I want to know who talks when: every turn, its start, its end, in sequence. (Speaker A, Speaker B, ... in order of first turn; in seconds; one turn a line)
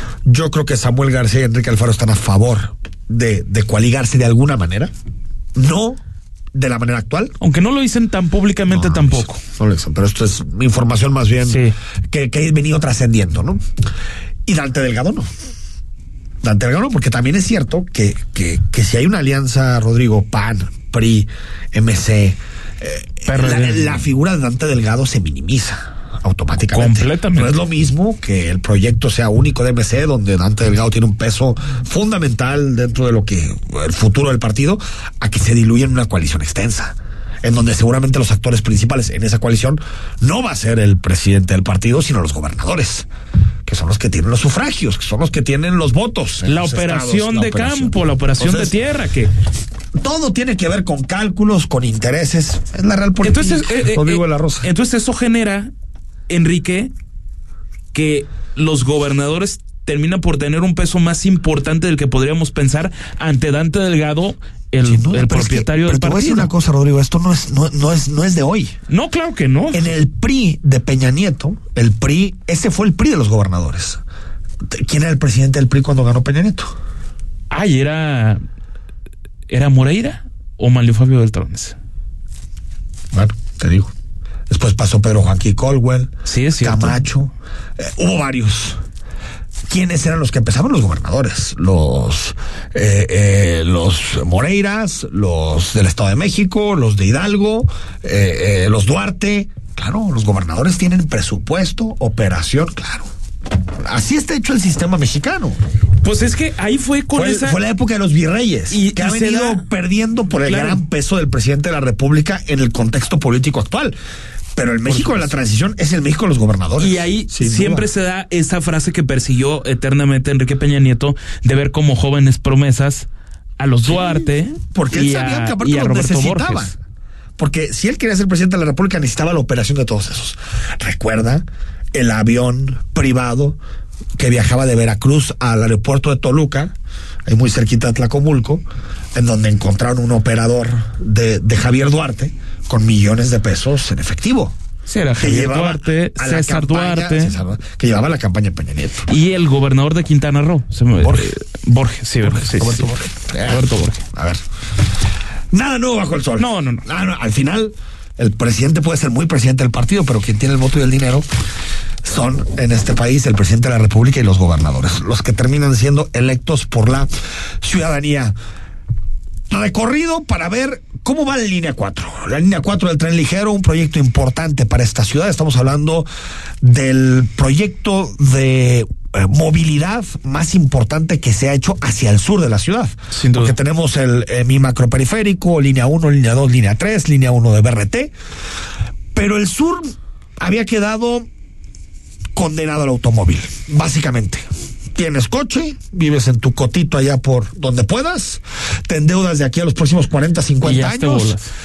Speaker A: 0.2-4.9
Speaker A: 5.5-6.0
Speaker A: 6.5-7.3
Speaker B: 7.4-9.3
Speaker A: 8.7-13.6
Speaker B: 11.4-11.7
Speaker A: 14.4-15.3
Speaker A: 16.4-43.1
Speaker B: 23.3-24.0
Speaker B: 26.7-27.5
Speaker A: 43.6-48.7
Speaker B: 46.4-49.3
Speaker A: 49.9-54.7
Speaker B: 53.2-55.7
Speaker B: 56.3-56.9
Speaker B: 57.9-66.5
Speaker A: 64.8-68.7
Speaker B: 68.9-69.9
Speaker A: 69.7-74.0
Speaker A: 74.7-76.8
Speaker B: 77.5-78.4
Speaker B: 79.5-81.8
Speaker A: 83.1-83.9
Speaker A: 84.5-88.8
Speaker B: 86.2-87.0
Speaker A: 89.7-103.1
Speaker A: 103.8-105.6
Speaker B: 106.0-107.6
Speaker A: 107.1-114.0
Speaker B: 108.7-109.6
Speaker B: 110.3-110.8
Speaker A: 114.5-117.9
Speaker B: 114.9-115.3
Speaker B: 116.8-123.1
Speaker B: 123.6-126.7
Speaker A: 123.8-126.8
Speaker A: 127.4-133.6
Speaker A: 134.2-136.7
Speaker A: 137.2-144.5
Speaker B: 144.9-147.3
Speaker A: 145.2-149.1
Speaker B: 149.1-152.9
Speaker A: 151.0-151.3
Speaker A: 152.2-154.4
Speaker B: 153.4-154.0
Speaker A: 155.5-161.3
Speaker B: 156.4-156.8
Speaker A: 162.0-167.1
Speaker A: 167.6-168.3
Speaker A: 169.5-176.1
Speaker A: 176.6-188.1
Speaker B: 183.1-183.6
Speaker A: 189.1-191.3
Speaker A: 192.3-201.4
Speaker B: 200.6-201.5